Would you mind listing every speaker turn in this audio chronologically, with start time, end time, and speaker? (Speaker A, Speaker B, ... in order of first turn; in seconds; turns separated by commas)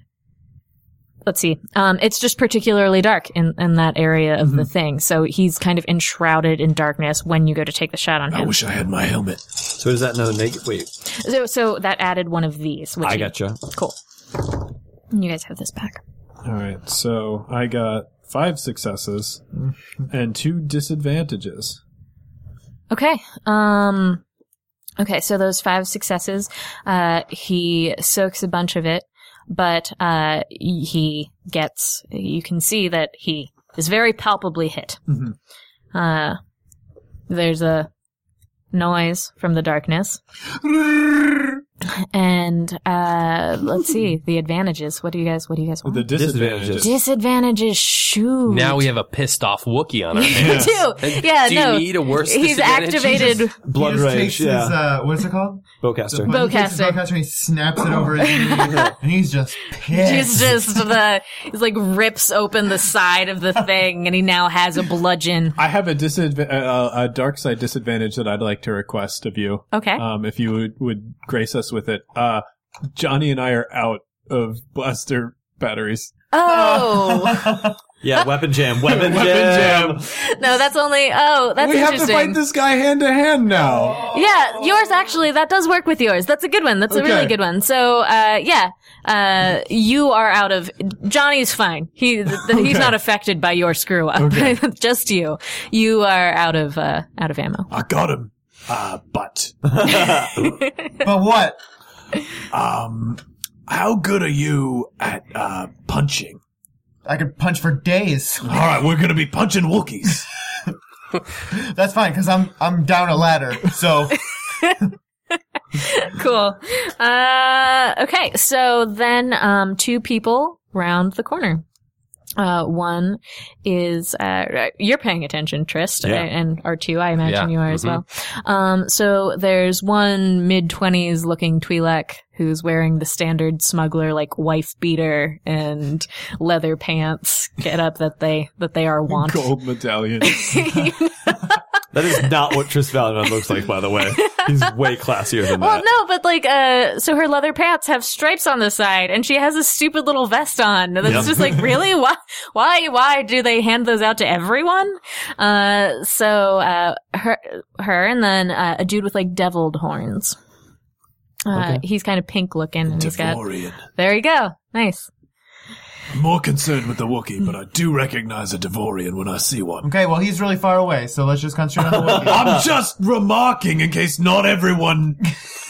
Speaker A: 1.2-8.6, Speaker B: 8.3-9.6, Speaker C: 9.7-10.9, Speaker A: 11.1-13.9, Speaker C: 13.0-13.6, Speaker A: 15.1-16.0, Speaker D: 16.4-19.4, Speaker D: 20.1-21.8, Speaker A: 22.9-24.2, Speaker A: 25.0-35.0, Speaker A: 35.9-36.4, Speaker A: 37.3-37.9, Speaker A: 38.7-40.2, Speaker A: 42.0-46.1, Speaker D: 45.8-46.9, Speaker C: 46.1-46.9, Speaker A: 46.8-48.8, Speaker E: 48.5-53.5, Speaker A: 50.1-53.6, Speaker D: 50.3-50.8, Speaker C: 53.6-54.8, Speaker F: 53.7-60.8, Speaker C: 55.8-56.3, Speaker A: 56.3-57.0, Speaker A: 58.2-58.9, Speaker A: 59.9-65.6, Speaker D: 65.6-76.1, Speaker A: 69.7-70.0, Speaker A: 76.3-77.5, Speaker F: 76.5-77.8, Speaker C: 78.0-80.0, Speaker B: 79.1-80.0, Speaker D: 79.2-80.0, Speaker A: 80.0-82.4, Speaker D: 81.6-84.0, Speaker B: 83.2-83.9, Speaker A: 84.1-97.7, Speaker D: 86.9-87.3, Speaker D: 92.5-92.9, Speaker D: 94.2-94.6, Speaker B: 97.7-100.5, Speaker F: 101.0-101.6, Speaker B: 102.5-106.4, Speaker F: 107.0-108.7, Speaker B: 108.4-110.3, Speaker F: 111.5-114.3, Speaker A: 115.7-121.6, Speaker A: 122.4-139.5, Speaker C: 126.0-126.3, Speaker E: 127.2-128.0, Speaker D: 139.1-140.9, Speaker A: 140.2-141.6, Speaker C: 141.9-145.8, Speaker A: 144.2-144.6, Speaker A: 145.5-160.3, Speaker C: 151.0-151.7, Speaker A: 161.5-165.1, Speaker C: 161.5-161.8, Speaker B: 162.9-163.8, Speaker B: 166.1-169.9, Speaker F: 169.8-172.6, Speaker B: 172.1-175.3